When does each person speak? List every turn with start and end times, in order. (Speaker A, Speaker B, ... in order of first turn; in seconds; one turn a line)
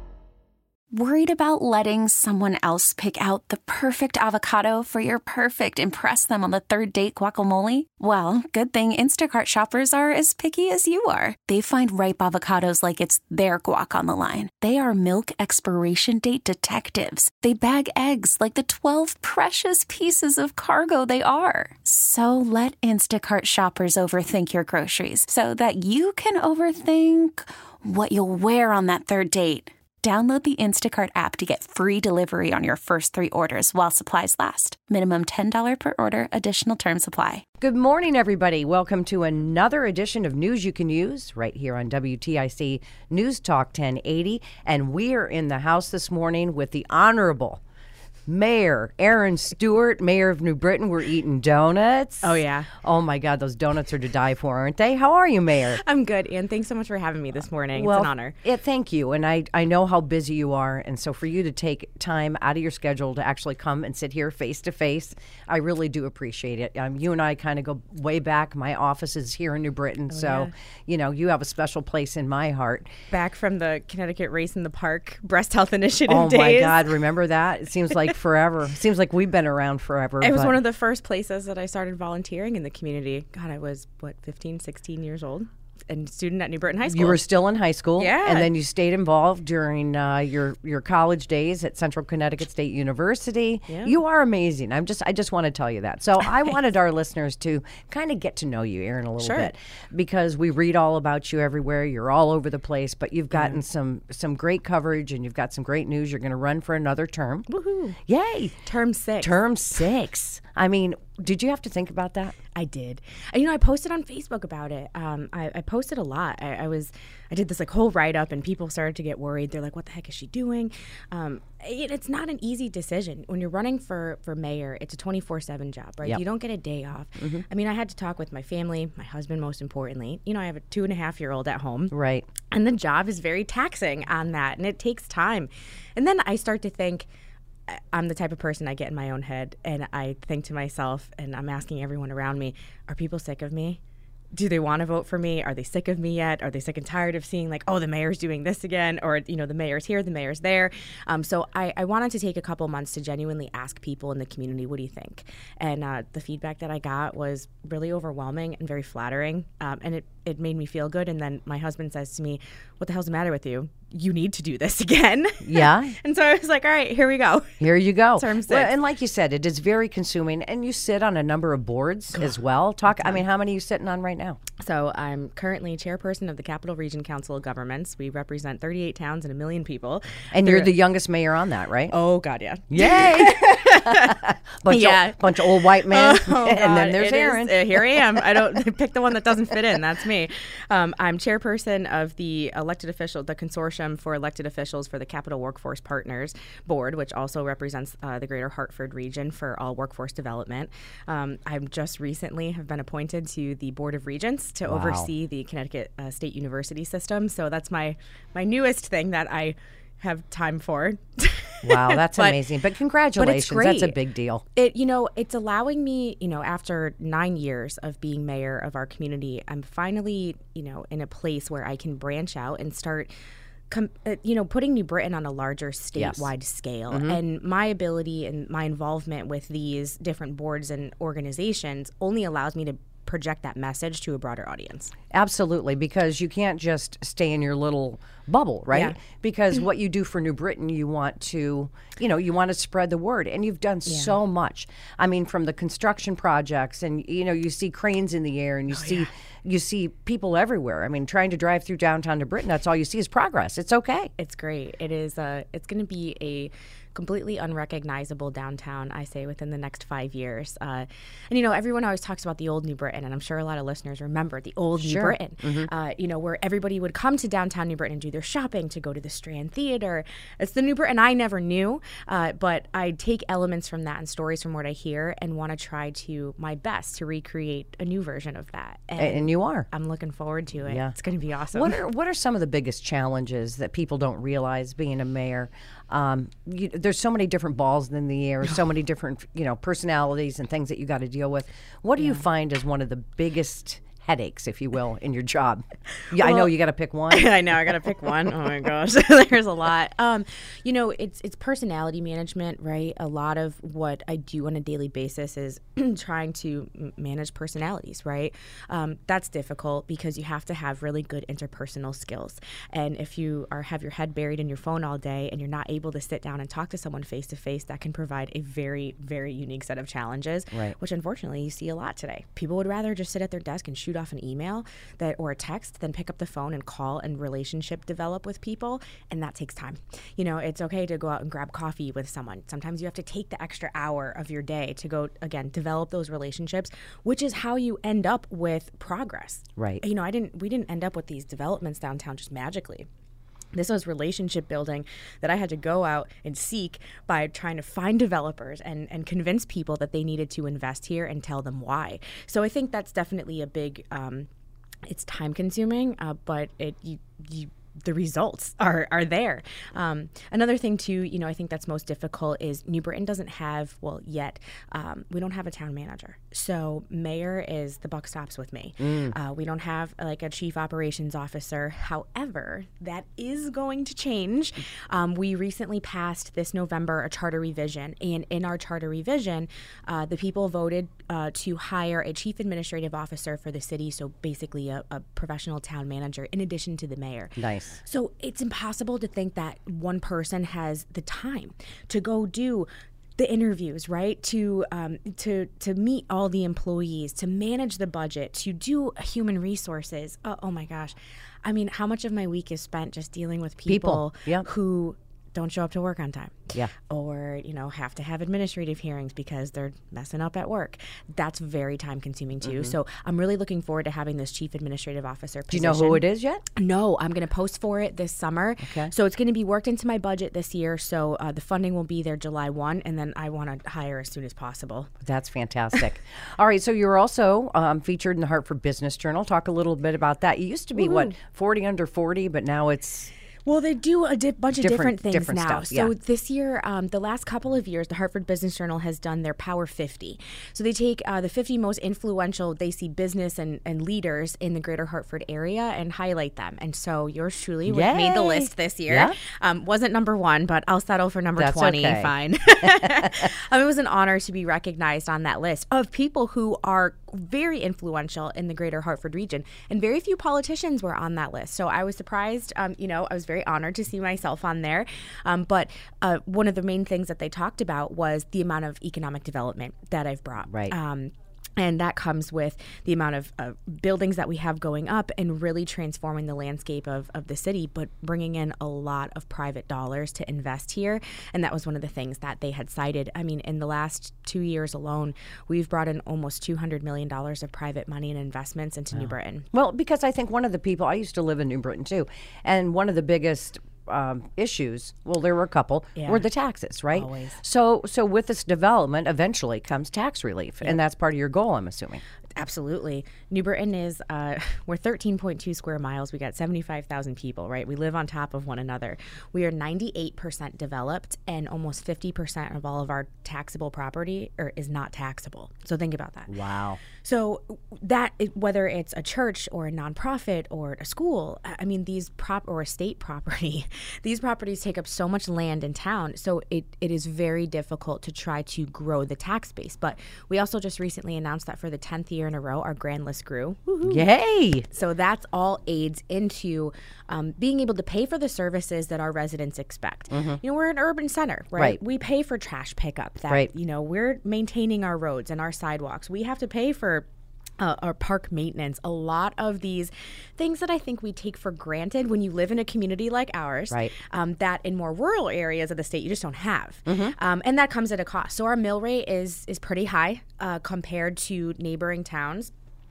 Speaker A: 0.9-37.4
Speaker B: 37.6-47.6
Speaker B: 48.3-55.8
Speaker C: 52.2-52.7
Speaker C: 55.8-58.4
Speaker B: 57.7-72.9
Speaker C: 70.1-70.5
Speaker C: 73.1-76.9
Speaker B: 76.1-80.6
Speaker C: 80.2-87.2
Speaker B: 86.8-107.5
Speaker C: 88.0-88.5
Speaker C: 93.7-93.9
Speaker C: 99.2-99.5
Speaker C: 107.5-108.0
Speaker B: 108.0-108.5
Speaker C: 108.6-109.4
Speaker B: 109.2-112.4
Speaker C: 112.5-131.9
Speaker B: 127.2-127.4
Speaker B: 131.9-132.3
Speaker C: 132.5-137.1
Speaker C: 137.7-143.8
Speaker C: 144.3-167.6
Speaker B: 165.4-165.9
Speaker B: 167.6-174.4
Speaker C: 168.1-168.7
Speaker C: 172.9-173.2
Speaker C: 174.6-180.7
Speaker B: 180.3-181.9
Speaker C: 181.9-212.4
Speaker B: 182.7-188.0
Speaker B: 204.7-205.1
Speaker B: 211.6-214.4
Speaker C: 213.2-214.0
Speaker C: 214.5-223.1
Speaker C: 223.7-234.9
Speaker B: 226.0-226.3
Speaker B: 226.9-227.2
Speaker B: 235.1-254.1
Speaker C: 238.7-239.0
Speaker C: 243.9-244.1
Speaker C: 248.7-249.1
Speaker C: 254.2-281.8
Speaker B: 264.8-265.7
Speaker B: 279.0-279.7
Speaker B: 280.7-280.9
Speaker B: 281.5-297.3
Speaker C: 296.2-296.5
Speaker C: 297.1-342.9
Speaker B: 339.6-339.8
Speaker C: 343.5-354.3
Speaker C: 354.8-424.9
Speaker B: 368.8-369.1
Speaker B: 387.4-387.8
Speaker B: 403.7-404.4
Speaker B: 412.4-412.7
Speaker B: 415.5-416.4
Speaker B: 418.6-418.9
Speaker B: 425.0-433.1
Speaker C: 430.8-431.1
Speaker C: 433.4-489.4
Speaker B: 434.5-435.9
Speaker B: 447.7-449.1
Speaker B: 451.4-453.3
Speaker B: 470.5-470.7
Speaker B: 489.5-502.0
Speaker C: 495.9-496.2
Speaker C: 496.9-497.4
Speaker C: 502.4-534.1
Speaker B: 516.3-516.8
Speaker B: 533.8-534.6
Speaker C: 534.7-547.1
Speaker B: 540.1-540.4
Speaker C: 547.6-562.5
Speaker B: 556.9-557.1